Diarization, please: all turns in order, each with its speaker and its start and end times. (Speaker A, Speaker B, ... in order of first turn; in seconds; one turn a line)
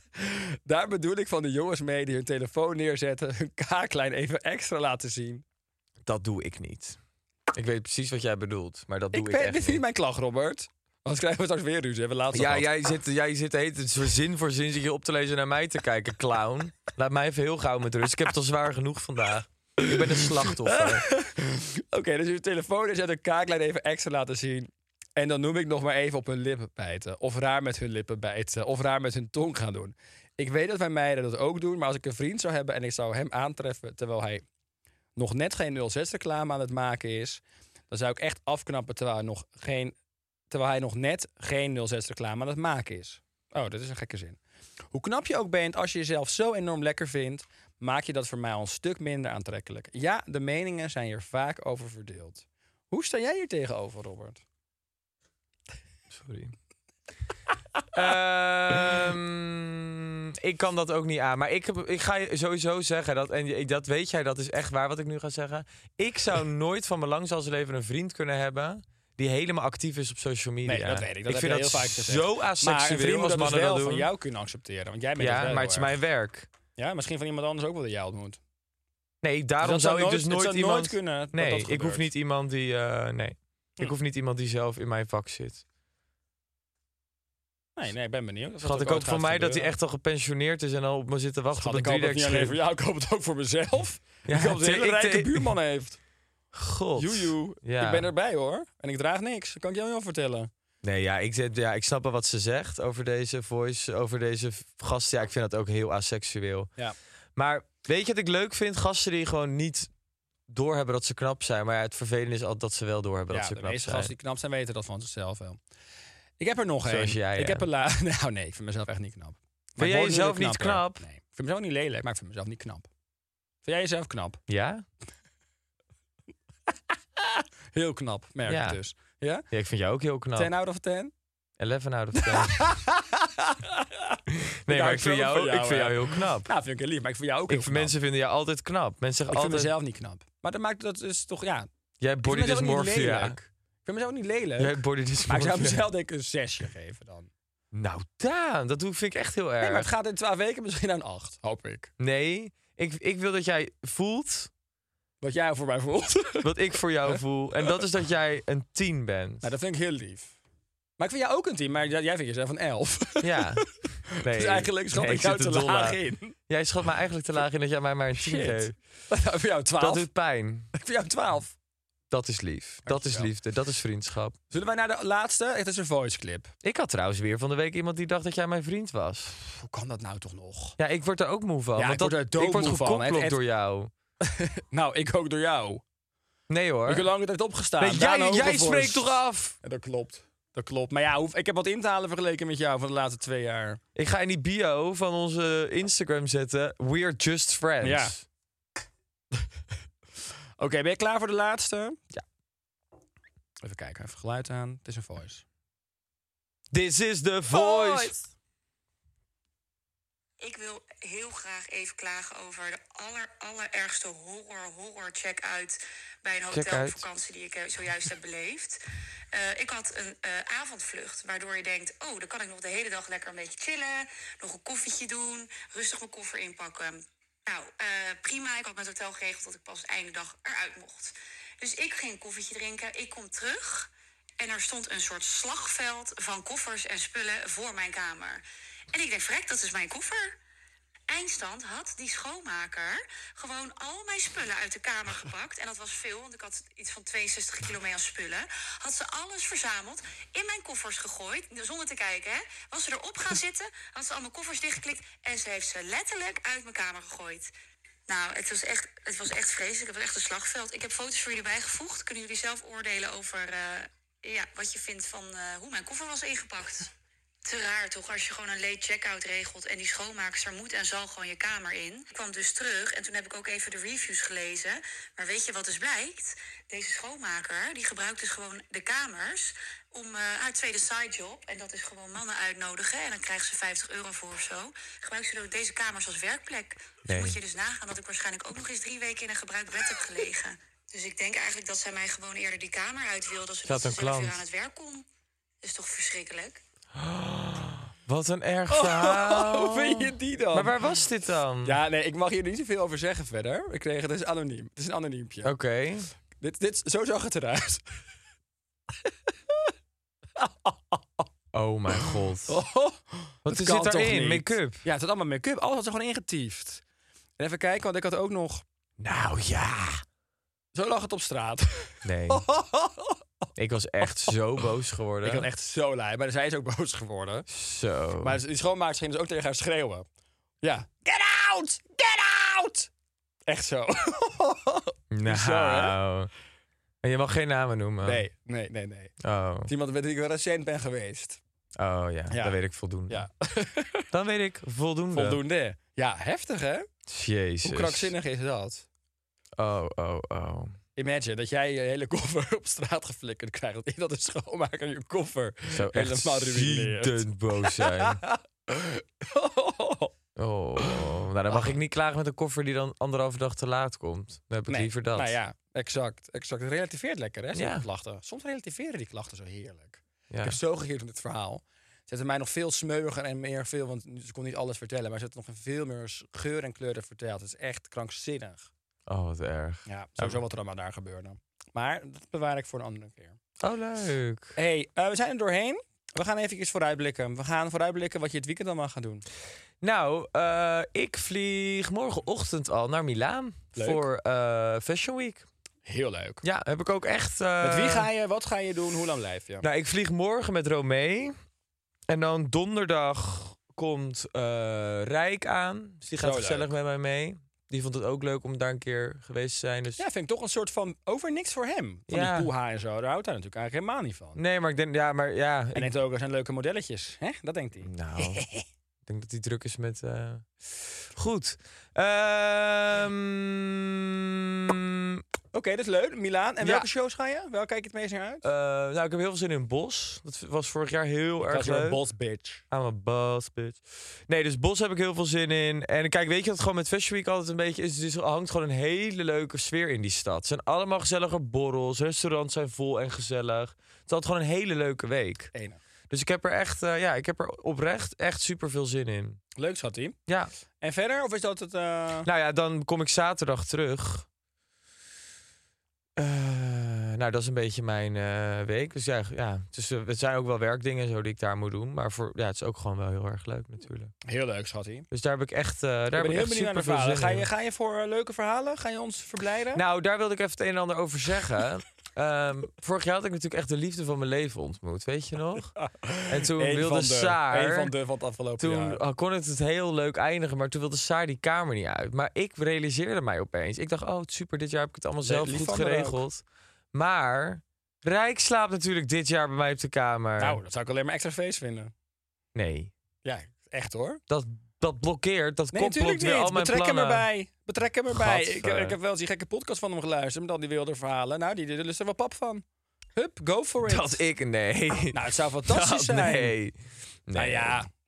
Speaker A: 0.2-5.4
Speaker B: 6.1-7.0
Speaker B: 7.5-9.8
Speaker A: 9.1-12.7
Speaker B: 12.3-21.1
Speaker A: 19.8-34.4
Speaker A: 35.2-40.0
Speaker A: 40.5-44.4
Speaker A: 44.9-54.4
Speaker B: 56.1-56.5
Speaker B: 57.9-74.1
Speaker A: 70.7-76.0
Speaker B: 75.2-76.5
Speaker A: 76.8-78.4
Speaker B: 79.2-85.6
Speaker A: 79.6-82.1
Speaker A: 87.8-89.7
Speaker B: 88.6-92.6
Speaker A: 91.6-96.0
Speaker B: 94.3-95.5
Speaker B: 96.5-98.1
Speaker A: 97.0-100.5
Speaker B: 100.8-106.7
Speaker B: 107.4-109.9
Speaker B: 110.5-114.1
Speaker A: 113.3-115.6
Speaker A: 116.4-122.9
Speaker B: 116.9-117.7
Speaker B: 119.8-121.0
Speaker A: 123.7-124.4
Speaker B: 124.5-124.8
Speaker A: 127.2-129.4
Speaker B: 128.5-128.8
Speaker B: 129.5-130.5
Speaker A: 130.4-131.1
Speaker B: 131.6-132.7
Speaker A: 132.2-137.9
Speaker B: 134.3-136.5
Speaker B: 137.5-139.7
Speaker A: 139.3-141.7
Speaker B: 142.0-143.4
Speaker A: 142.2-147.3
Speaker B: 144.6-145.9
Speaker B: 147.7-149.9
Speaker A: 149.6-151.9
Speaker B: 152.0-154.5
Speaker A: 155.2-156.5
Speaker B: 156.4-159.5
Speaker A: 159.4-160.3
Speaker A: 161.0-163.4
Speaker B: 163.2-168.8
Speaker A: 164.3-166.3
Speaker A: 168.2-170.1
Speaker B: 169.8-170.7
Speaker A: 170.7-171.5
Speaker B: 172.1-174.4
Speaker A: 172.8-173.3
Speaker A: 174.5-176.5
Speaker B: 176.6-179.4
Speaker A: 179.5-180.8
Speaker B: 180.8-183.9
Speaker A: 181.8-183.4
Speaker A: 184.2-185.8
Speaker B: 186.5-187.1
Speaker A: 186.9-193.8
Speaker B: 187.8-189.6
Speaker B: 193.9-198.2
Speaker A: 197.8-198.2
Speaker A: 200.6-202.0
Speaker A: 203.6-205.4
Speaker B: 206.7-208.2
Speaker A: 207.5-208.2
Speaker C: 210.4-218.8
Speaker B: 216.5-217.0
Speaker C: 219.3-240.3
Speaker C: 241.1-257.5
Speaker C: 258.1-266.9
Speaker C: 267.4-295.1
Speaker B: 287.1-287.4
Speaker B: 293.6-294.4
Speaker C: 295.6-296.6
Speaker B: 296.9-301.8
Speaker A: 298.7-300.8
Speaker A: 301.6-305.5
Speaker B: 305.4-306.1
Speaker A: 306.4-307.8
Speaker A: 310.4-311.3
Speaker B: 311.5-312.6
Speaker A: 312.0-316.8
Speaker B: 313.5-314.8
Speaker A: 317.4-318.6
Speaker B: 319.0-320.0
Speaker A: 320.7-323.2
Speaker B: 322.1-322.4
Speaker B: 323.6-325.5
Speaker A: 324.0-324.4
Speaker A: 325.2-327.5
Speaker B: 327.5-328.4
Speaker A: 328.2-330.1
Speaker A: 330.6-332.9
Speaker A: 333.5-336.0
Speaker B: 335.1-336.3
Speaker B: 337.0-338.2
Speaker A: 338.0-339.1
Speaker B: 339.2-339.7
Speaker A: 339.7-341.4
Speaker B: 341.8-343.3
Speaker A: 342.3-342.6
Speaker A: 343.1-344.1
Speaker B: 344.1-345.4
Speaker A: 345.1-346.9
Speaker B: 347.1-348.1
Speaker A: 347.6-348.9
Speaker B: 349.6-350.8
Speaker A: 351.0-360.1
Speaker B: 355.7-358.2
Speaker B: 360.4-365.4
Speaker A: 361.5-361.8
Speaker A: 364.7-378.7
Speaker B: 367.6-367.9
Speaker B: 370.3-370.6
Speaker B: 379.1-380.4
Speaker A: 379.9-383.4
Speaker B: 383.6-384.5
Speaker A: 384.6-389.2
Speaker B: 389.8-395.5
Speaker A: 393.8-394.0
Speaker A: 395.9-396.4
Speaker B: 396.4-398.1
Speaker A: 397.6-399.7
Speaker B: 399.6-401.4
Speaker B: 402.1-410.0
Speaker A: 406.1-406.7
Speaker A: 410.0-414.4
Speaker B: 412.1-412.5
Speaker B: 414.4-415.9
Speaker A: 415.8-418.6
Speaker B: 417.9-418.5
Speaker B: 419.1-425.2
Speaker A: 425.5-428.5
Speaker B: 426.6-426.9
Speaker B: 428.4-432.0
Speaker A: 431.5-432.6
Speaker B: 432.7-445.5
Speaker A: 445.5-445.8
Speaker B: 446.1-449.4
Speaker A: 449.6-450.2
Speaker A: 450.8-452.3
Speaker B: 452.2-454.3
Speaker B: 456.2-464.1
Speaker A: 464.3-465.1
Speaker B: 465.1-467.5
Speaker A: 466.2-469.8
Speaker B: 469.8-475.8
Speaker A: 475.8-479.0
Speaker B: 476.3-477.9
Speaker B: 478.6-486.4
Speaker A: 485.2-486.2
Speaker B: 486.9-490.6
Speaker A: 490.4-491.9
Speaker B: 492.6-492.9
Speaker A: 493.2-494.2
Speaker B: 494.3-497.3
Speaker A: 495.7-502.6
Speaker B: 498.1-499.0
Speaker A: 503.2-504.2
Speaker B: 503.8-506.8
Speaker A: 505.1-506.5
Speaker B: 507.3-507.8
Speaker A: 507.3-507.9